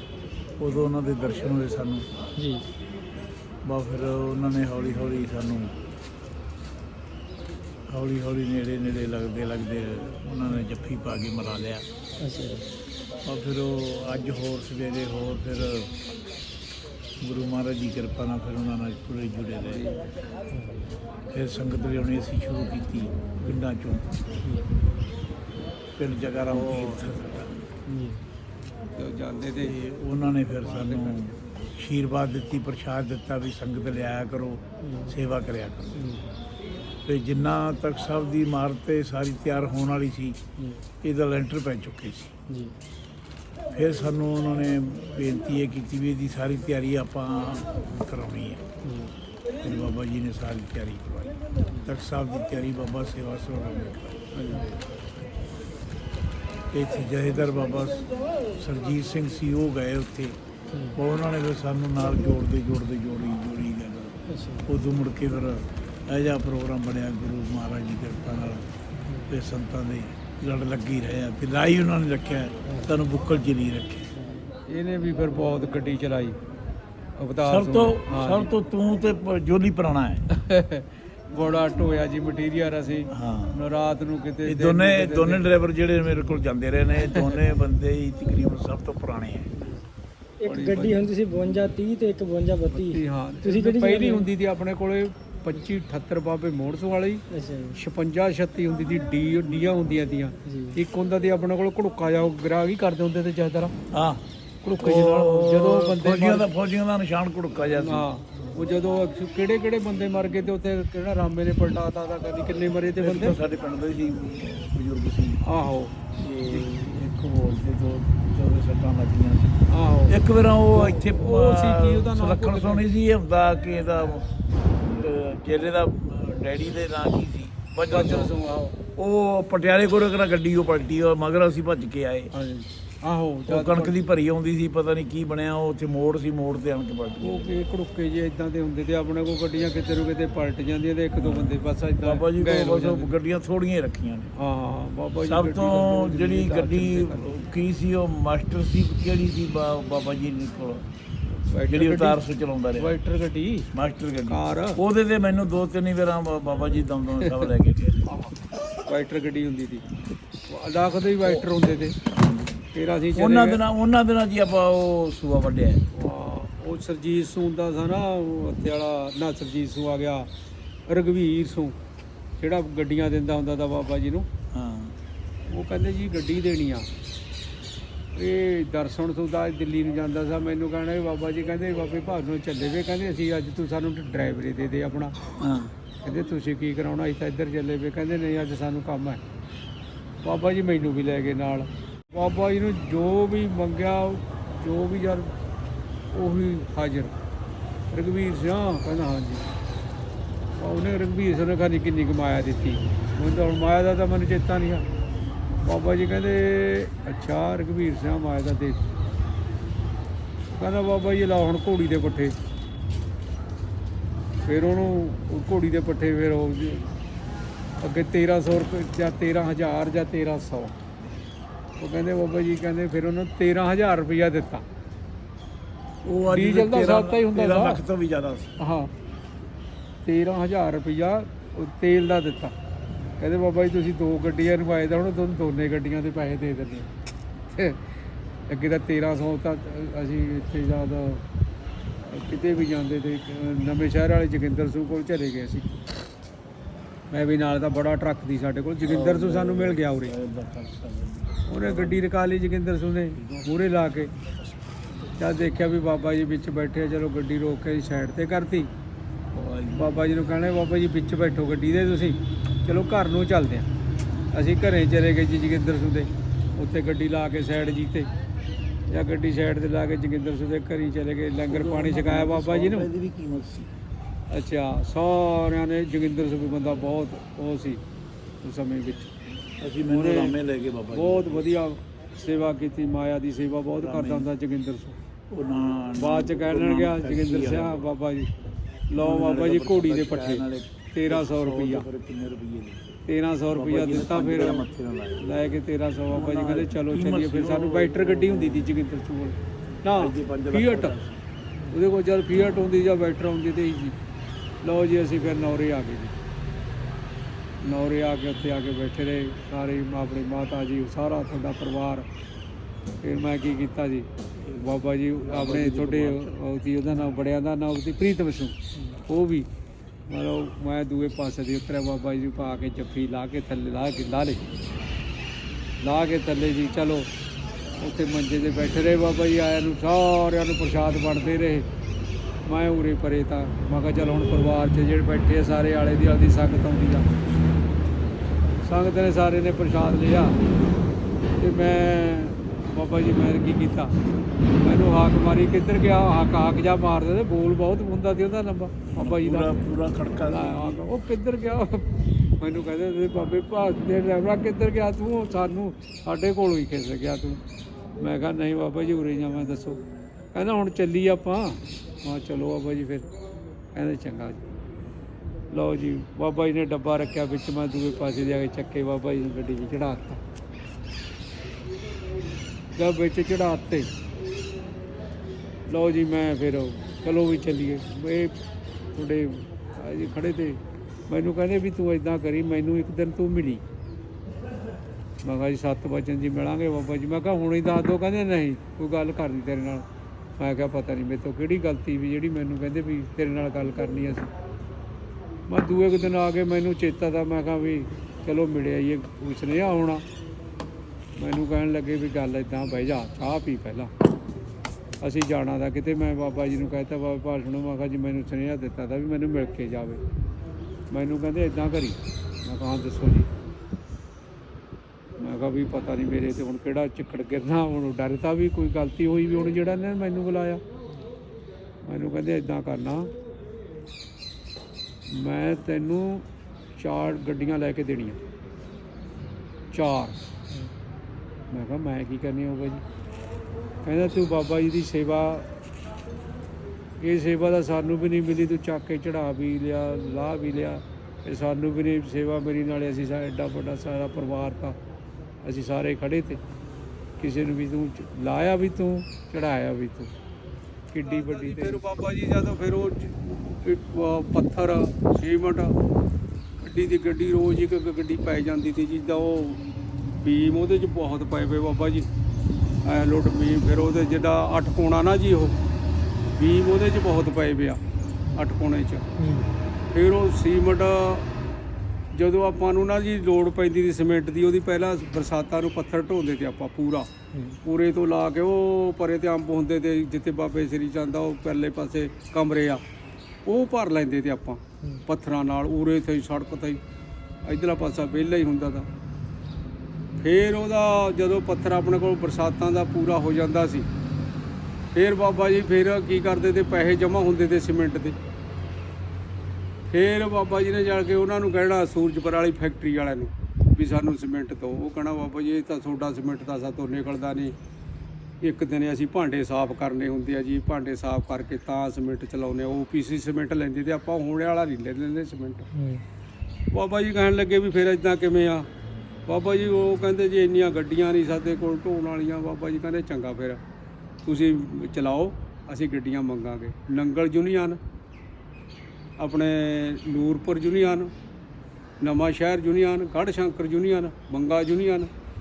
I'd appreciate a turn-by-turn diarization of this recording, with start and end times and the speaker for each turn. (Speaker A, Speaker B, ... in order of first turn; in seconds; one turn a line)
Speaker A: 0.6-2.0
Speaker B: 2.4-2.7
Speaker A: 3.6-5.8
Speaker A: 7.9-11.8
Speaker B: 12.2-12.7
Speaker A: 13.2-15.9
Speaker A: 17.2-19.9
Speaker C: 19.6-20.0
Speaker B: 20.5-20.9
Speaker A: 21.3-24.1
Speaker A: 25.9-27.6
Speaker C: 26.4-27.0
Speaker B: 27.9-28.2
Speaker C: 29.0-29.7
Speaker A: 29.6-36.1
Speaker C: 30.6-31.3
Speaker B: 34.8-35.1
Speaker B: 36.0-36.3
Speaker A: 37.0-40.4
Speaker B: 40.6-40.8
Speaker A: 41.0-42.3
Speaker B: 42.5-42.8
Speaker A: 43.7-48.6
Speaker B: 48.8-49.1
Speaker A: 49.6-54.5
Speaker C: 54.3-54.8
Speaker A: 56.7-60.4
Speaker A: 60.9-68.7
Speaker B: 64.3-64.7
Speaker B: 69.0-69.3
Speaker A: 69.2-74.1
Speaker C: 74.7-76.4
Speaker C: 77.2-78.5
Speaker A: 77.4-80.2
Speaker C: 80.3-85.5
Speaker A: 83.1-83.5
Speaker A: 84.4-89.7
Speaker C: 87.0-87.4
Speaker B: 90.4-94.3
Speaker C: 90.4-91.1
Speaker C: 92.7-103.7
Speaker B: 97.3-97.8
Speaker B: 100.5-100.8
Speaker A: 103.9-104.2
Speaker C: 104.6-106.5
Speaker A: 104.8-108.1
Speaker C: 107.6-113.4
Speaker A: 113.0-115.4
Speaker C: 115.4-115.9
Speaker A: 116.2-128.3
Speaker C: 116.5-116.7
Speaker C: 119.7-122.8
Speaker C: 127.9-128.8
Speaker A: 128.9-132.3
Speaker C: 132.3-134.0
Speaker A: 133.5-137.5
Speaker C: 137.2-143.1
Speaker A: 141.2-144.3
Speaker C: 144.3-147.4
Speaker A: 145.2-150.8
Speaker C: 151.3-153.7
Speaker A: 151.7-152.9
Speaker A: 153.7-158.1
Speaker C: 154.3-154.8
Speaker C: 157.2-157.5
Speaker C: 158.1-158.3
Speaker C: 158.8-159.8
Speaker C: 160.5-162.0
Speaker A: 162.2-162.5
Speaker C: 162.7-163.6
Speaker A: 163.1-165.8
Speaker C: 165.9-170.3
Speaker C: 170.9-171.8
Speaker C: 172.4-174.3
Speaker A: 174.5-174.9
Speaker C: 175.4-176.9
Speaker C: 178.1-185.2
Speaker A: 185.4-185.7
Speaker C: 186.0-189.2
Speaker C: 190.2-195.3
Speaker C: 196.1-197.2
Speaker C: 197.9-199.5
Speaker C: 200.5-204.8
Speaker C: 205.6-208.9
Speaker C: 210.5-212.3
Speaker C: 214.4-216.9
Speaker C: 217.8-220.8
Speaker C: 221.8-224.6
Speaker A: 226.0-228.5
Speaker C: 226.3-227.8
Speaker C: 228.6-228.9
Speaker C: 230.0-232.5
Speaker C: 233.2-236.9
Speaker C: 237.5-237.9
Speaker C: 238.5-241.2
Speaker C: 242.0-245.8
Speaker C: 247.1-250.1
Speaker A: 248.8-252.1
Speaker C: 251.4-254.1
Speaker A: 253.2-253.5
Speaker A: 254.3-255.1
Speaker C: 255.2-258.7
Speaker A: 259.3-260.0
Speaker C: 259.7-263.7
Speaker C: 264.3-268.1
Speaker C: 268.9-272.9
Speaker A: 271.4-273.7
Speaker C: 274.3-277.8
Speaker C: 278.4-279.1
Speaker A: 279.6-281.4
Speaker C: 279.9-280.4
Speaker C: 280.9-284.9
Speaker A: 283.8-284.3
Speaker A: 285.3-287.9
Speaker C: 286.0-288.3
Speaker C: 288.9-291.9
Speaker A: 288.9-293.0
Speaker C: 293.1-300.9
Speaker A: 293.5-295.2
Speaker A: 296.1-298.7
Speaker A: 299.9-301.2
Speaker C: 301.7-304.0
Speaker C: 304.6-306.1
Speaker C: 307.6-312.1
Speaker C: 313.0-319.5
Speaker A: 314.4-316.3
Speaker C: 320.1-324.4
Speaker C: 325.8-327.1
Speaker C: 327.8-331.7
Speaker C: 332.4-337.1
Speaker C: 338.6-340.4
Speaker C: 341.4-344.0
Speaker C: 344.6-349.6
Speaker A: 348.9-350.8
Speaker C: 350.2-357.4
Speaker C: 358.0-359.8
Speaker C: 360.3-363.1
Speaker C: 363.7-364.4
Speaker C: 365.5-370.2
Speaker C: 372.8-373.9
Speaker C: 375.7-378.4
Speaker C: 378.9-383.6
Speaker C: 385.2-389.9
Speaker C: 390.4-394.3
Speaker C: 395.5-400.0
Speaker C: 401.1-403.9
Speaker C: 405.0-410.0
Speaker C: 410.9-413.3
Speaker C: 415.2-420.6
Speaker C: 421.8-423.1
Speaker C: 425.1-428.2
Speaker C: 429.7-430.3
Speaker C: 431.5-432.8
Speaker C: 433.8-435.5
Speaker C: 437.0-444.8
Speaker C: 445.4-446.4
Speaker C: 447.2-450.1
Speaker C: 450.9-455.8
Speaker C: 456.6-459.6
Speaker C: 460.2-462.1
Speaker C: 462.8-465.6
Speaker C: 466.3-467.8
Speaker C: 468.3-469.1
Speaker B: 469.2-469.5
Speaker C: 469.9-471.3
Speaker C: 472.1-477.1
Speaker B: 477.3-477.6
Speaker C: 477.6-482.8
Speaker C: 483.4-486.8
Speaker C: 487.4-488.9
Speaker C: 490.2-493.9
Speaker C: 494.9-498.2
Speaker C: 499.9-507.5
Speaker C: 508.4-515.7
Speaker B: 515.7-516.0
Speaker C: 516.7-518.7
Speaker C: 519.2-523.6
Speaker C: 524.2-527.8
Speaker C: 529.2-531.1
Speaker C: 532.0-535.1